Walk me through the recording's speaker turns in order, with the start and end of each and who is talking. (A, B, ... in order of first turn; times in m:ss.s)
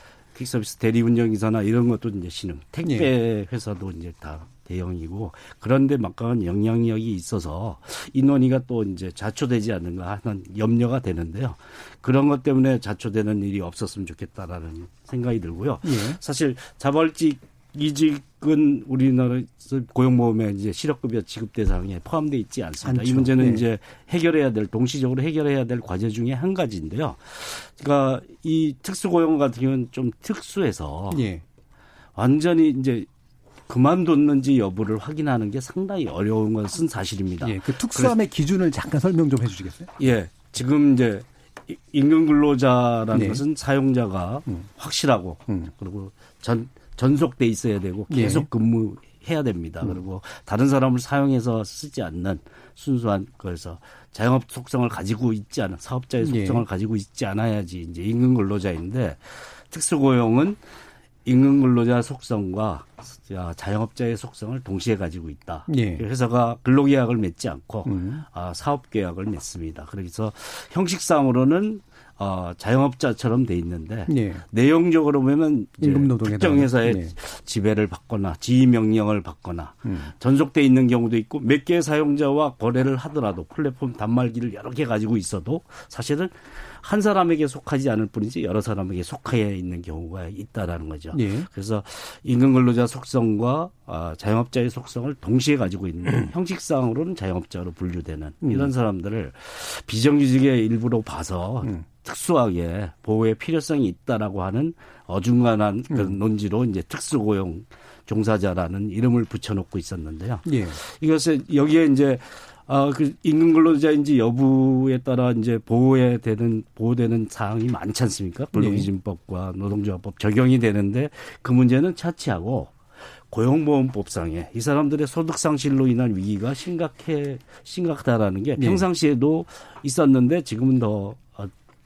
0:00.4-0:31.2 A
0:02.8-0:03.1 B
0:15.8-0:16.2 B
0:22.8-0:23.6 B
0:31.1-0:31.4 B
0:32.2-0:33.1 A
0:33.7-0:38.2 A
0:37.4-0:39.9 B
0:40.0-1:00.6 A
0:43.1-0:43.4 B
0:48.1-0:48.5 B
0:56.2-0:56.6 B
1:01.2-2:02.7 A
1:05.7-1:06.0 B
1:07.9-1:08.2 B
1:14.1-1:14.4 B
1:15.8-1:17.2 B
1:19.8-1:20.1 B
1:31.1-1:31.5 B
1:38.4-1:38.7 B
1:45.9-1:46.2 B
1:50.4-1:50.8 B
1:58.5-1:58.9 B
2:03.3-2:11.5 A
2:08.6-2:08.8 B